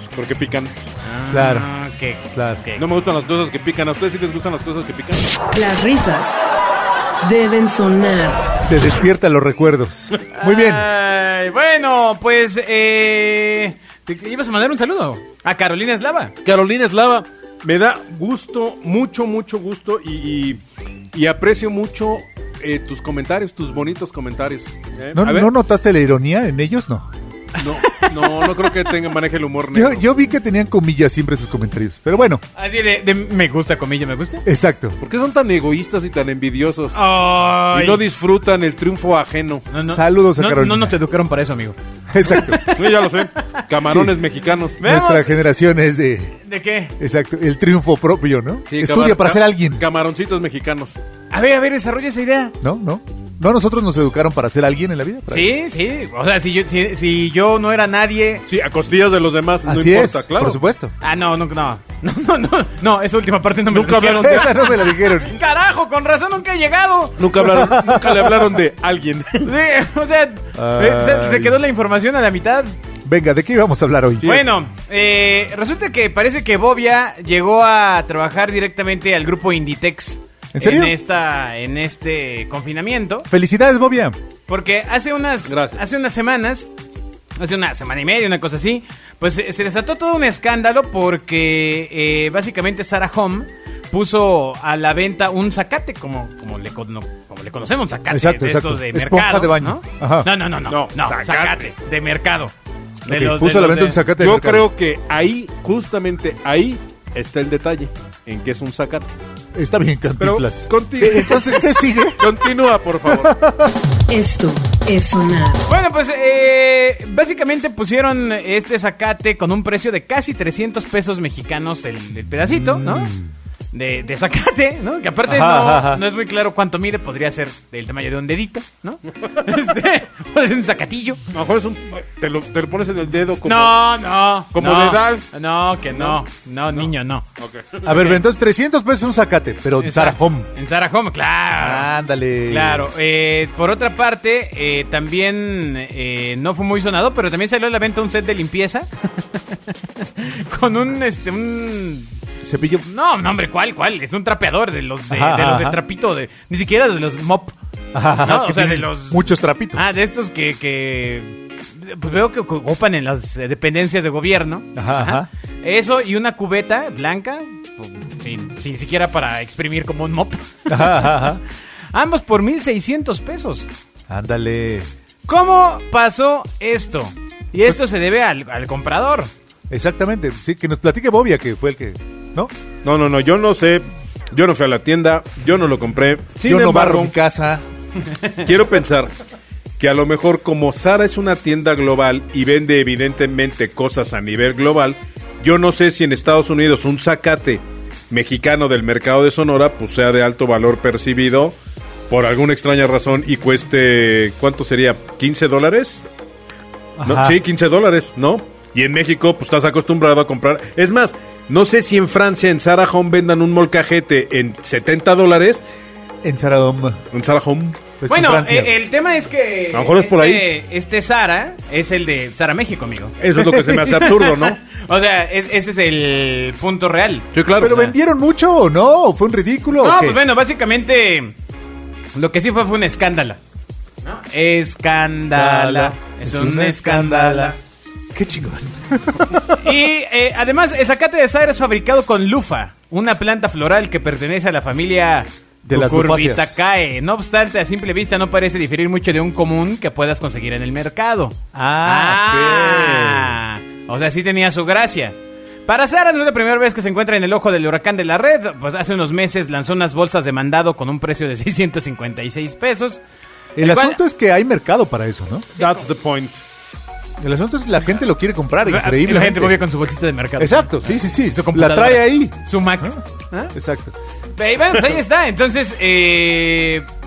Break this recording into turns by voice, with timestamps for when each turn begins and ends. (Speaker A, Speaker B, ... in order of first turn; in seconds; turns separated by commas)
Speaker A: 0.1-0.7, Speaker B: 1.0-2.8, Speaker C: 1.3-1.7, Speaker C: 2.3-2.7, Speaker A: 2.8-5.3, Speaker D: 5.5-6.4, Speaker D: 7.2-8.5, Speaker C: 8.7-10.9, Speaker B: 10.3-16.4, Speaker A: 16.4-20.6, Speaker A: 21.1-25.5, Speaker C: 25.1-27.1, Speaker A: 27.6-30.0, Speaker B: 27.6-28.8, Speaker C: 29.7-32.4, Speaker B: 32.6-34.4, Speaker C: 34.5-35.0, Speaker A: 35.0-37.0, Speaker B: 37.0-38.0, Speaker A: 37.7-39.7, Speaker B: 39.7-43.5, Speaker C: 39.9-41.0, Speaker C: 42.1-42.6, Speaker A: 42.7-44.8, Speaker C: 43.9-44.1, Speaker B: 44.8-45.4, Speaker C: 44.8-46.4, Speaker B: 46.5-46.9, Speaker C: 47.0-49.8, Speaker A: 48.7-51.0, Speaker B: 51.3-52.5, Speaker C: 52.6-55.5, Speaker B: 55.3-58.5, Speaker A: 58.5-60.6, Speaker C: 59.6-60.9, Speaker B: 61.0-67.3, Speaker A: 63.7-64.6, Speaker C: 64.2-65.4, Speaker A: 67.2-69.5, Speaker C: 67.4-68.4, Speaker B: 69.4-72.7, Speaker C: 70.5-71.6, Speaker C: 73.1-74.3, Speaker A: 74.2-74.5, Speaker B: 74.2-83.3, Speaker C: 80.5-80.9, Speaker C: 83.3-84.2, Speaker B: 84.5-86.7, Speaker A: 85.5-85.8, Speaker B: 87.4-102.5, Speaker C: 98.1-100.3, Speaker A: 100.7-101.7, Speaker B: 103.1-104.0, Speaker C: 103.1-104.7, Speaker A: 104.2-109.2, Speaker C: 109.5-112.2, Speaker A: 110.2-113.3, Speaker C: 113.1-113.7, Speaker D: 114.1-115.7, Speaker B: 115.7-123.1, Speaker C: 122.5-123.3, Speaker B: 123.7-131.2, Speaker C: 125.3-126.0, Speaker A: 131.3-133.8, Speaker B: 133.4-137.2, Speaker A: 134.5-135.2, Speaker A: 135.9-136.2, Speaker A: 136.7-137.9, Speaker C: 137.8-140.5, Speaker B: 137.9-138.2, Speaker B: 139.8-141.9, Speaker C: 141.6-142.9, Speaker B: 142.5-152.1, Speaker C: 152.4-152.9, Speaker B: 152.8-157.6, Speaker C: 155.1-155.8, Speaker C: 157.9-159.9, Speaker B: 158.2-159.2, Speaker B: 159.8-171.4, Speaker C: 164.8-165.3, Speaker C: 170.7-171.4, Speaker B: 171.9-173.7, Speaker C: 174.1-174.9, Speaker B: 175.3-179.3, Speaker C: 179.7-182.5, Speaker A: 182.8-187.1, Speaker C: 186.4-187.6, Speaker A: 188.4-189.1, Speaker A: 189.8-201.6, Speaker A: 202.1-206.1, Speaker C: 207.0-207.4, Speaker A: 207.1-215.6, Speaker C: 216.2-217.0, Speaker A: 217.1-217.8, Speaker C: 218.0-218.7, Speaker B: 218.1-223.2, Speaker A: 219.7-220.5, Speaker A: 223.2-224.6, Speaker C: 223.4-223.8, Speaker B: 223.8-227.9, Speaker A: 227.3-227.8, Speaker C: 227.6-230.2, Speaker B: 229.8-231.3, Speaker B: 232.1-233.4, Speaker B: 234.0-237.6, Speaker C: 235.3-237.6, Speaker C: 238.1-239.8, Speaker B: 239.5-263.0, Speaker C: 245.6-246.6, Speaker C: 251.5-253.4, Speaker C: 263.6-265.5, Speaker B: 263.6-264.0, Speaker A: 265.6-266.4, Speaker B: 265.6-265.8, Speaker C: 267.2-269.6, Speaker B: 268.6-273.5, Speaker C: 270.4-273.0, Speaker C: 273.5-273.9, Speaker B: 274.4-276.9